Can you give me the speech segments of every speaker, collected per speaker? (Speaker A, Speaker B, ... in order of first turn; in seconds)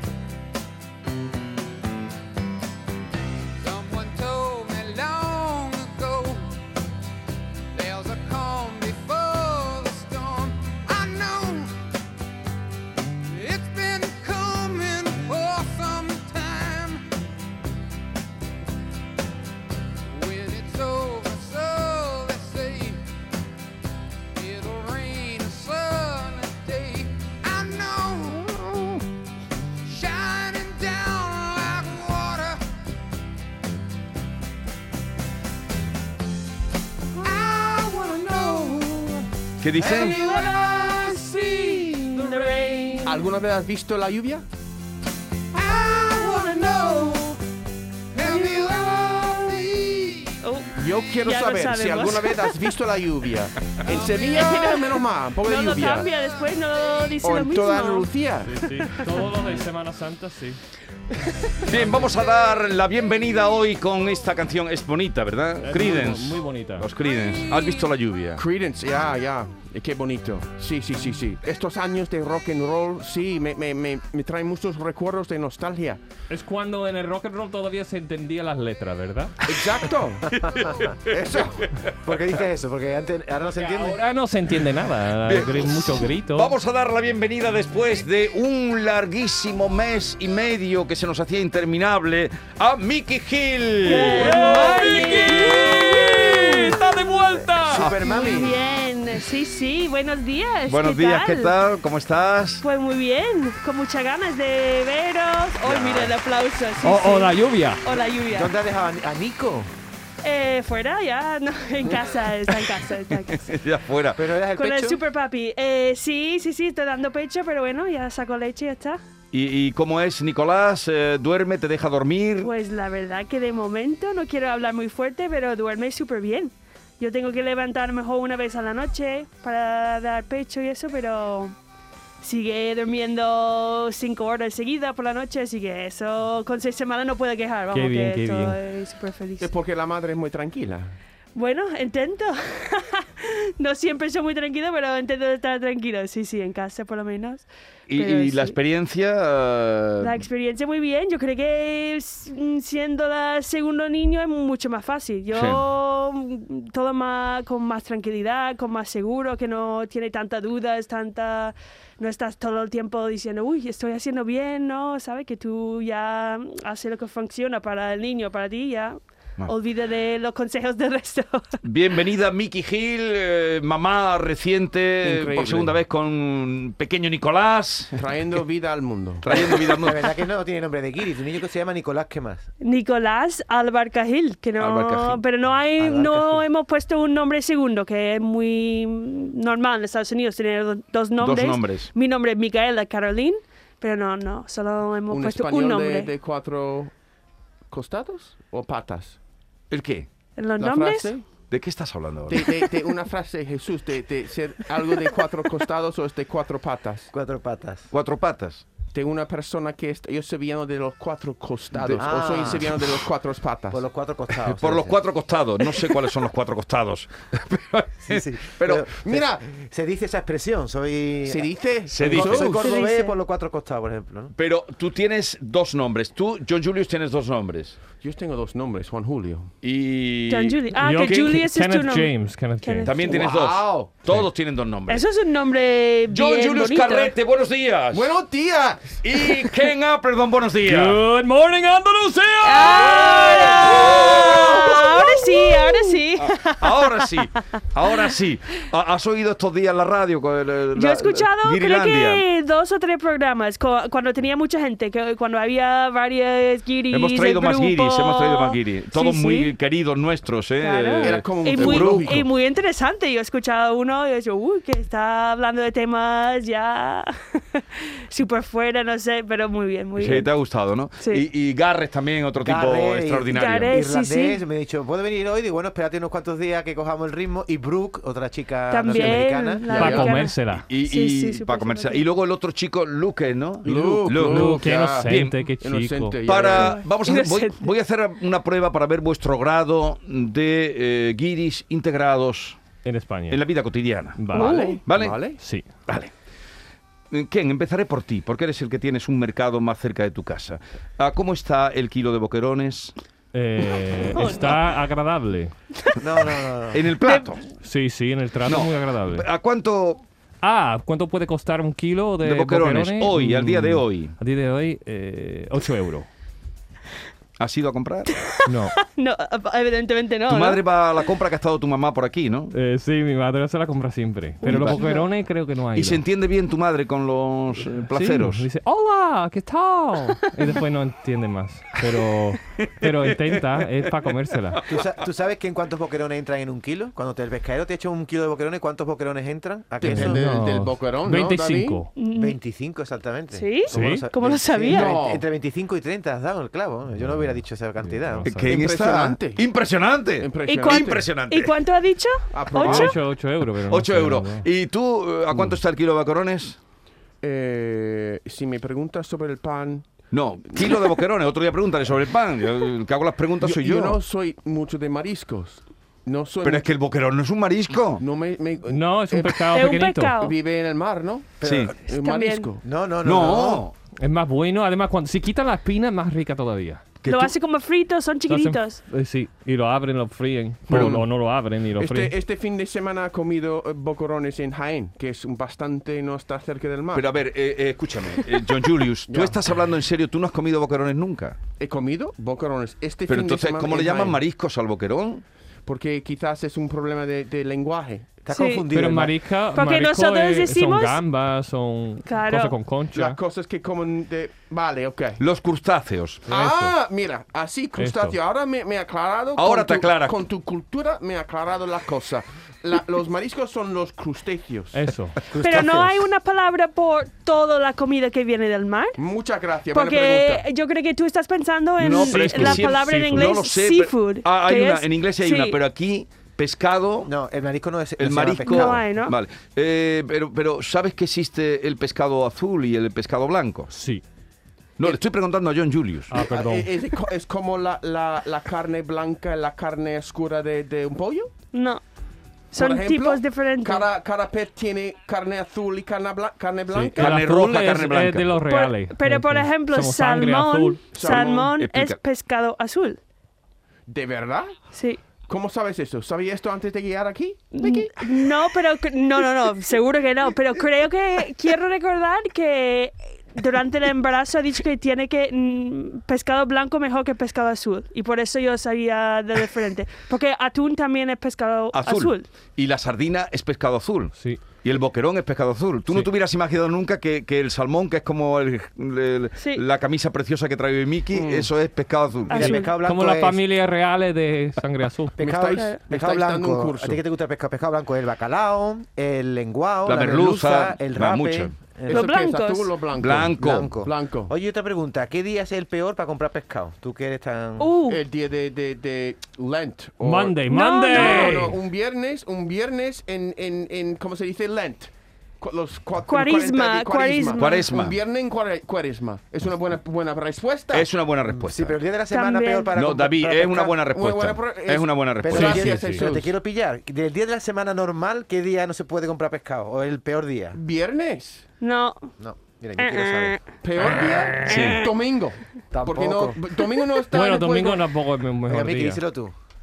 Speaker A: 3.6-6.5, 7.7-11.7, 13.3-17.1, 20.1-23.0, 24.4-28.9, 29.9-32.6, 37.2-43.2, 45.5-47.4, 48.1-50.4, 53.9-54.7
Speaker B: 39.6-40.2, 61.6-68.4, 80.3-80.9, 85.2-95.2, 97.7-98.4, 100.7-102.6, 105.7-106.1, 113.3-114.3, 119.3-122.5, 147.9-150.2, 155.3-155.6, 171.6-178.0, 179.2-180.1, 184.6-185.2, 191.2-191.9, 199.7-200.1, 201.5-202.6, 207.9-208.6, 211.8-212.7, 214.4-218.9, 221.9-222.7, 224.4-227.8, 229.6-231.4, 232.8-235.1, 236.1-238.1, 239.0-241.0, 242.8-245.2, 246.2-252.2, 256.9-262.2, 270.0-273.8, 280.5-285.4, 286.2-292.6, 293.3-294.3, 294.9-295.2, 295.9-296.1, 297.1-302.9, 306.7-307.4, 308.4-310.0, 312.2-314.1, 317.4-318.1, 320.3-322.5, 324.5-325.1, 325.7-328.5, 332.6-333.4, 348.2-351.6, 353.6-356.6, 360.1-364.0, 366.4-368.0, 371.4-371.8, 373.0-373.7, 377.0-377.3, 380.7-381.0, 386.9-391.4, 393.1-395.2, 405.2-406.3, 409.4-410.2, 421.8-427.1, 428.0-433.7, 434.8-436.2, 446.8-448.4, 451.1-452.0, 471.7-482.6, 489.9-491.5, 493.0-493.7, 507.4-508.0, 510.7-511.8, 512.7-516.0, 524.4-524.9
Speaker C: 43.0-44.5, 50.8-56.1, 57.2-58.6, 68.4-76.0, 79.5-81.7, 139.4-140.9, 175.0-175.8, 177.9-179.3, 195.1-196.9, 197.7-199.2, 200.6-201.3, 202.3-207.1, 208.9-213.8, 219.0-219.4, 221.3-222.7, 228.0-229.5, 233.0-233.9, 237.9-239.5, 243.9-244.3, 261.0-262.3, 279.7-280.1, 283.6-286.8, 294.3-295.4, 339.8-341.8, 344.7-345.2, 348.5-349.5, 350.2-351.1, 352.3-352.9, 357.2-359.9, 360.6-360.9, 363.4-366.7, 368.0-369.5, 370.2-372.6, 380.7-381.1, 381.8-387.1, 389.1-389.4, 391.6-394.2, 395.7-398.2, 402.9-405.2, 406.3-414.8, 419.0-420.4, 436.2-441.3, 442.6-447.2, 450.9-451.5, 453.9-454.5, 455.3-458.3, 481.1-481.5, 485.2-487.0, 491.9-494.3, 497.9-510.9, 513.9-516.3, 520.5-521.5, 523.6-527.9
Speaker D: 50.4-52.6, 54.2-58.1, 93.8-96.8, 97.9-101.5, 102.6-108.5, 110.2-113.5, 114.5-119.0, 122.4-131.6, 132.2-139.5, 141.3-148.6, 150.0-171.6, 182.6-196.1, 200.4-201.1, 222.6-223.2, 230.3-233.0, 234.9-237.2, 242.4-248.1, 250.8-259.6, 260.6-270.3, 271.0-271.2, 273.3-274.4, 278.7-282.1, 286.5-287.7, 294.3-294.8, 304.1-304.6, 307.0-307.4, 318.1-320.6, 324.4-325.1, 342.0-342.4, 343.3-345.0, 350.5-352.9, 369.5-370.4, 371.9-372.5, 377.1-378.8, 398.3-398.7, 399.6-401.0, 402.1-402.6, 415.4-419.0, 419.7-425.6, 428.4-429.2, 441.5-441.8, 442.5-443.9, 448.5-453.0, 454.7-455.0, 457.6-472.3, 479.4-479.6, 482.3-482.7, 485.6-485.8, 491.9-492.8, 497.6-498.0, 500.5-501.5, 506.1-507.7, 512.1-512.7, 521.6-522.1, 522.8-523.5
Speaker E: 58.5-60.6, 65.6-66.9, 76.3-79.4, 83.6-86.5, 93.8-97.9, 106.8-107.8, 137.7-138.6, 230.8-233.0, 240.6-243.8, 279.7-280.6, 284.2-286.2, 292.8-293.4, 294.1-294.6, 295.4-295.7, 303.3-305.5, 307.6-309.3, 310.4-316.1, 318.5-318.8, 322.5-326.1, 327.9-334.6, 339.8-341.9, 343.7-344.1, 347.0-348.6, 352.6-354.5, 368.7-370.2, 374.0-376.8, 378.3-382.1, 398.7-403.2, 406.3-406.7, 407.8-408.2, 414.7-415.2, 421.9-423.2, 433.7-434.0, 436.1-436.7, 446.8-450.8, 474.1-474.4, 482.4-485.2, 500.0-501.6, 515.4-516.0, 527.1-529.0
Speaker F: 82.0-84.0, 97.7-98.6, 108.3-109.7, 114.2-115.0, 179.3-182.4, 185.8-186.4, 207.1-207.9, 212.0-212.7, 213.7-215.0, 218.1-224.3, 272.4-279.7, 306.0-306.9, 334.7-340.2, 342.1-348.3, 371.4-371.7, 372.6-373.6, 398.2-399.1, 415.3-416.0, 427.0-428.8, 482.3-483.4, 485.2-492.1, 493.3-497.8, 511.3-513.8, 515.2-520.6, 522.2-523.4, 525.7-526.4, 528.5-529.4